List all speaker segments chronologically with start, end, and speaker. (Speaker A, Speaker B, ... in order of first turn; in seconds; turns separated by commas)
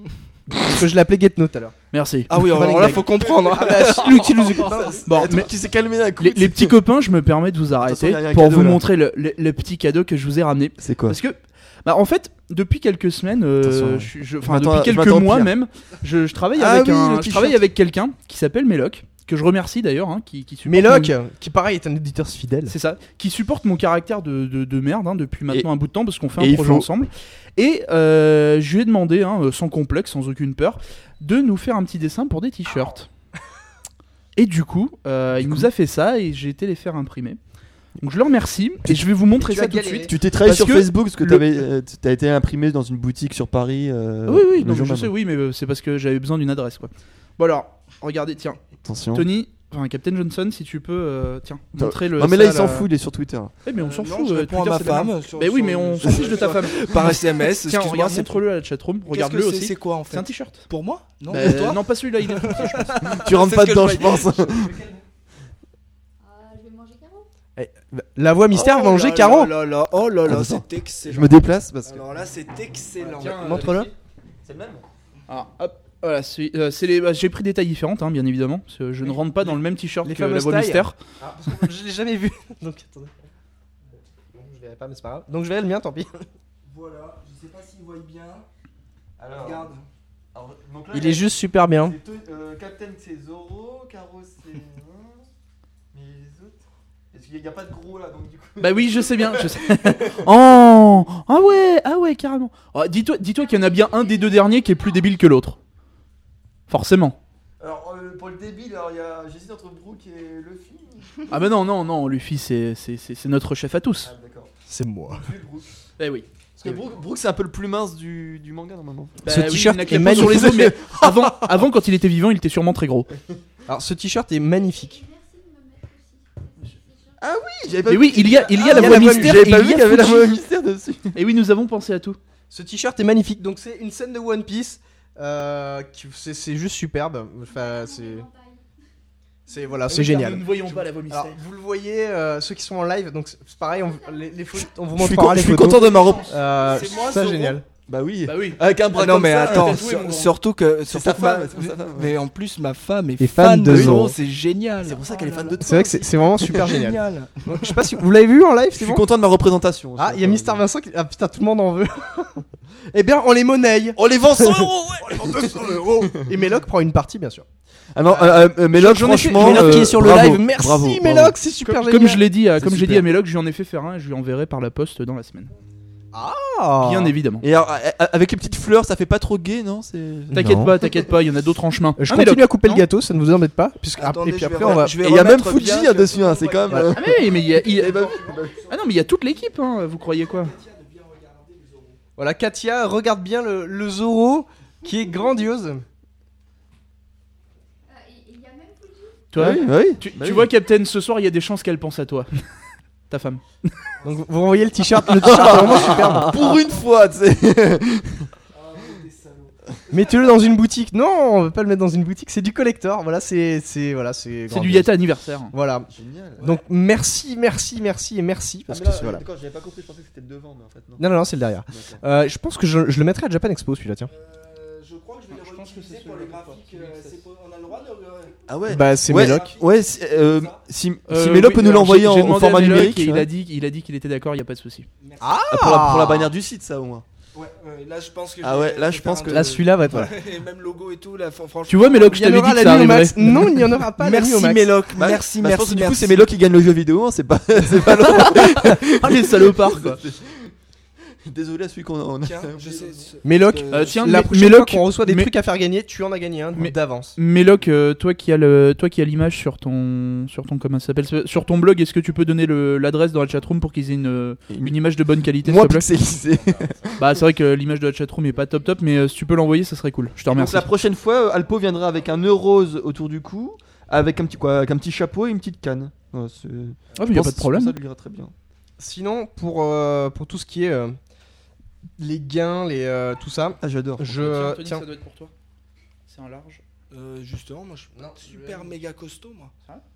Speaker A: 0.5-1.7, Speaker B: 1.9-2.7, Speaker C: 2.3-5.0, Speaker A: 2.4-5.1, Speaker D: 3.7-6.8, Speaker B: 4.0-5.5, Speaker B: 6.2-21.1, Speaker D: 7.8-8.8, Speaker D: 10.8-11.2, Speaker D: 13.6-15.5, Speaker D: 16.6-17.7, Speaker A: 20.7-22.7, Speaker B: 22.7-33.1, Speaker D: 26.4-26.9, Speaker B: 34.4-37.4, Speaker D: 35.4-35.7, Speaker B: 38.0-41.5, Speaker A: 39.4-40.1, Speaker D: 40.1-45.1, Speaker B: 44.3-48.6, Speaker D: 48.8-49.3, Speaker B: 49.1-52.9, Speaker D: 51.8-53.5, Speaker B: 53.6-60.7, Speaker C: 53.7-58.4, Speaker C: 59.1-64.8, Speaker B: 61.3-63.0, Speaker D: 63.1-65.0, Speaker E: 66.5-67.2, Speaker A: 67.6-69.5, Speaker C: 68.5-73.8, Speaker D: 70.2-72.0, Speaker B: 73.0-73.9, Speaker A: 73.1-73.9, Speaker D: 74.5-74.9, Speaker B: 75.3-81.0, Speaker A: 80.0-83.3, Speaker A: 84.3-86.2, Speaker C: 86.7-88.5, Speaker D: 89.2-89.7, Speaker C: 89.4-89.8, Speaker D: 90.3-91.3, Speaker A: 90.9-92.0, Speaker D: 91.8-95.3, Speaker D: 95.9-96.6, Speaker D: 97.1-100.2, Speaker B: 98.6-105.6, Speaker B: 106.7-107.2, Speaker D: 107.6-111.3, Speaker B: 111.3-114.1, Speaker D: 114.0-114.5, Speaker A: 114.7-115.3, Speaker D: 115.1-115.7, Speaker B: 116.0-116.3, Speaker D: 116.6-121.7, Speaker B: 119.2-123.1, Speaker A: 119.3-120.6, Speaker A: 123.7-125.1, Speaker E: 125.0-126.2, Speaker D: 127.2-131.2, Speaker B: 127.9-130.4, Speaker A: 128.6-129.4, Speaker B: 131.1-132.2, Speaker A: 132.5-138.3, Speaker A: 139.5-147.6, Speaker B: 139.9-141.3, Speaker D: 144.9-146.4, Speaker C: 146.6-147.6, Speaker D: 147.9-150.0, Speaker B: 148.3-150.3, Speaker C: 148.9-155.7, Speaker D: 150.9-152.1, Speaker A: 153.2-154.1, Speaker D: 153.7-154.1, Speaker D: 154.8-156.6, Speaker A: 155.6-159.0, Speaker C: 156.4-157.8, Speaker D: 158.8-160.6, Speaker A: 160.0-167.4, Speaker D: 164.0-166.3, Speaker D: 167.9-171.4, Speaker B: 168.7-170.0, Speaker A: 169.0-172.2, Speaker B: 171.6-175.5, Speaker D: 172.6-173.0, Speaker A: 176.1-177.1, Speaker B: 176.8-177.4, Speaker D: 177.4-181.0, Speaker A: 180.3-180.7, Speaker B: 180.3-182.8, Speaker A: 182.0-184.9, Speaker C: 184.0-189.2, Speaker D: 185.0-188.7, Speaker A: 186.7-186.9, Speaker B: 186.9-188.2, Speaker B: 188.7-190.6, Speaker C: 190.0-192.0, Speaker A: 192.2-195.8, Speaker E: 198.0-199.2, Speaker B: 199.3-202.3, Speaker D: 199.4-200.5, Speaker B: 203.1-203.7, Speaker A: 204.1-206.6, Speaker D: 205.1-208.3, Speaker C: 208.5-209.9, Speaker A: 209.9-214.9, Speaker B: 214.5-215.5, Speaker A: 215.5-219.2, Speaker D: 215.9-216.4, Speaker D: 218.7-221.0, Speaker A: 221.0-224.1, Speaker D: 221.7-222.0, Speaker C: 224.1-228.4, Speaker B: 225.3-227.2, Speaker D: 228.5-233.3, Speaker A: 228.7-229.5, Speaker C: 229.1-230.6, Speaker B: 231.1-234.9, Speaker C: 235.0-235.4, Speaker A: 235.2-236.3, Speaker D: 235.5-237.1, Speaker C: 237.3-242.3, Speaker D: 238.4-239.6, Speaker A: 239.3-240.2, Speaker B: 241.7-243.7, Speaker A: 242.0-244.8, Speaker C: 244.0-246.3, Speaker D: 244.9-250.5, Speaker B: 247.9-250.0, Speaker D: 251.2-253.1, Speaker C: 252.2-254.1, Speaker A: 253.2-257.2, Speaker B: 253.7-255.3, Speaker B: 256.6-265.9, Speaker D: 264.5-264.8, Speaker D: 265.4-267.1, Speaker B: 267.0-270.7, Speaker D: 270.3-278.3, Speaker B: 277.0-277.8, Speaker A: 278.8-280.9, Speaker A: 282.0-284.9, Speaker D: 283.6-284.1, Speaker B: 284.1-285.3, Speaker B: 286.1-286.6, Speaker C: 286.9-289.5, Speaker A: 287.9-288.7